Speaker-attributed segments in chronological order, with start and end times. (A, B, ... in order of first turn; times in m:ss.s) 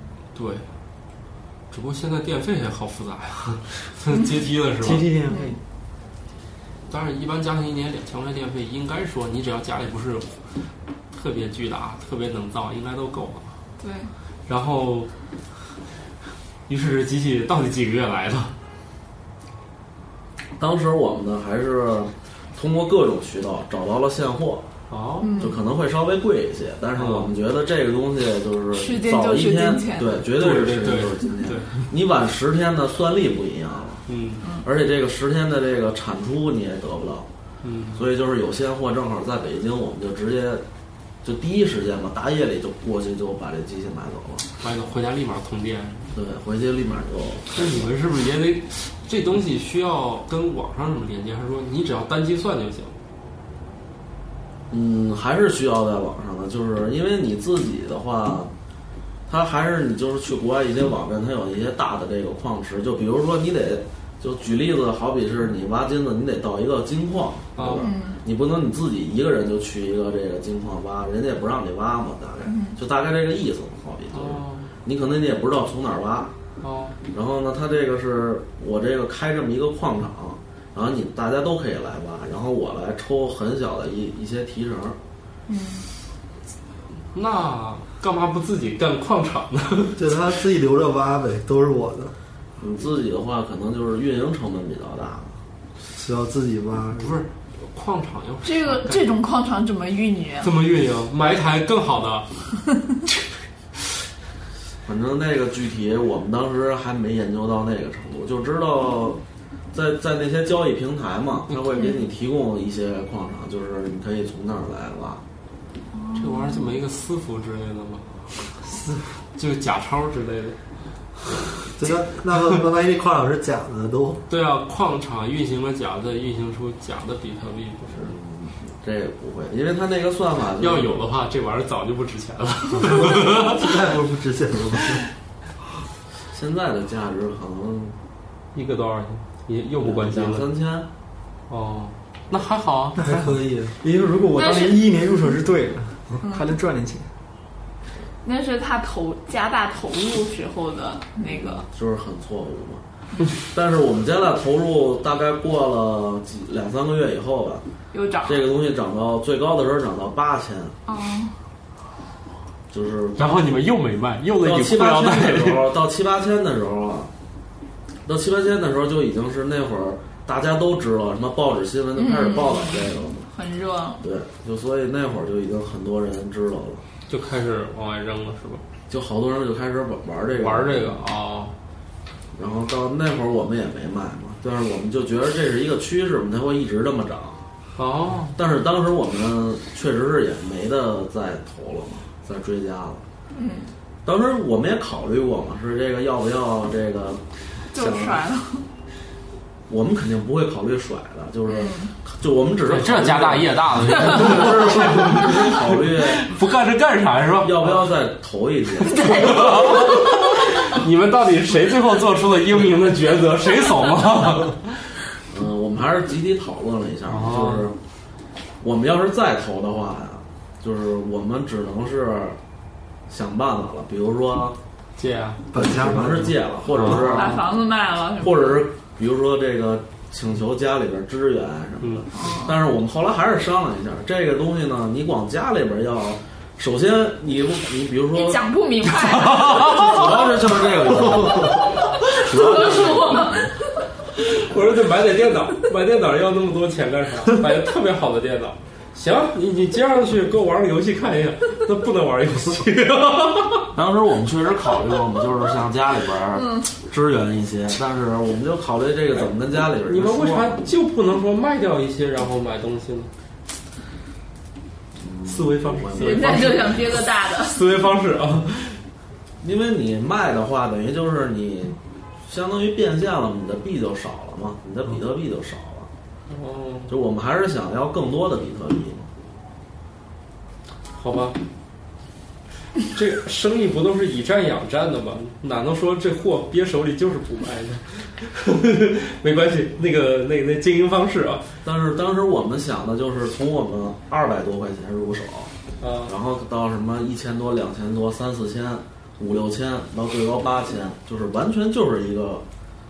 0:00.3-0:00.7 A
0:01.7-0:05.1 A
0:04.8-0:05.6 B
0:05.3-0:05.6 C
0:06.9-0:10.4 A
0:11.1-0:13.5 A
0:13.8-0:14.1 C
0:14.5-0:15.1 A
0:16.7-0:18.5 A
0:20.6-0:24.6 D
0:24.9-0:25.4 A
0:25.2-0:25.6 C
0:25.4-0:34.0 D
0:27.0-0:27.3 A
0:28.7-0:30.2 C
0:30.4-0:31.8 A
0:34.1-0:34.4 A
0:34.6-0:37.3 D
0:37.6-0:38.0 A
0:37.9-0:40.6 D
0:41.2-0:44.4 D
0:44.6-0:46.1 A
0:46.1-0:47.9 D
0:47.5-0:52.9 A
0:54.7-0:58.5 D
0:59.3-1:16.3 D
1:07.6-1:07.8 A
1:07.8-1:08.2 C
1:12.4-1:12.8 C
1:14.1-1:14.7 A
1:16.6-1:17.0 A
1:17.1-1:25.0 D
1:25.5-1:25.9 C
1:27.1-1:30.0 A
1:30.0-1:32.1 E
1:32.6-1:35.4 D
1:35.9-1:37.2 E
1:37.0-1:39.1 A
1:38.4-1:40.5 C
1:40.4-1:42.6 A
1:44.8-1:49.2 D
1:49.7-1:55.2 D
1:51.5-1:52.0 A
1:51.8-1:52.0 C
1:55.9-1:56.7 C
1:56.1-1:58.3 A
1:59.3-2:00.6 A
2:01.8-2:04.2 E
2:04.3-2:08.1 A
2:07.9-2:10.9 D
2:10.6-2:13.7 A
2:12.8-2:15.0 E
2:16.3-2:18.0 D
2:18.5-2:20.4 A
2:19.8-2:20.9 D
2:21.5-2:23.0 A
2:23.0-2:27.1 B
2:23.0-2:23.8 E
2:24.4-2:24.9 C
2:26.2-2:26.5 C
2:28.2-2:31.6 C
2:31.2-2:32.8 D
2:33.5-2:37.6 D
2:37.9-2:38.5 C
2:38.2-2:40.8 D
2:40.9-2:41.4 C
2:42.7-2:43.4 D
2:43.2-2:45.6 A
2:44.4-2:47.1 D
2:48.0-2:53.3 D
2:52.0-2:54.0 C
2:54.0-2:56.8 D
2:57.1-2:58.6 A
2:58.9-3:01.0 D
3:00.4-3:01.5 A
3:02.3-3:07.4 D
3:07.8-3:08.3 A
3:08.3-3:13.0 D
3:13.3-3:13.7 C
3:14.0-3:18.2 D
3:17.7-3:18.6 C
3:19.7-3:26.3 D
3:21.5-3:21.9 C
3:22.7-3:27.9 A
3:27.4-3:29.9 D
3:28.8-3:30.4 C
3:28.8-3:34.9 A
3:35.3-3:37.8 D
3:37.1-3:37.7 A
3:38.6-3:42.4 D
3:43.1-3:44.6 D
3:45.0-3:45.7 A
3:45.5-3:46.4 E
3:45.5-3:47.6 D
3:46.7-3:47.4 A
3:46.8-3:48.6 C
3:48.2-3:58.4 D
3:51.8-3:52.0 A
3:52.1-3:52.6 C
3:58.1-4:03.7 C
3:58.9-4:00.1 A
3:59.4-4:03.5 D
4:02.3-4:03.1 A
4:04.2-4:13.7 A
4:13.7-4:20.7 D
4:16.3-4:16.7 C
4:19.8-4:23.1 A
4:25.0-4:26.7 D
4:25.2-4:28.8 A
4:25.9-4:27.6 C
4:29.4-4:35.9 D
4:36.3-4:36.9 A
4:36.9-4:39.1 D
4:40.9-4:41.4 A
4:42.9-4:51.5 A
4:51.6-4:55.5 D
4:55.8-4:56.1 A
4:56.1-5:02.4 D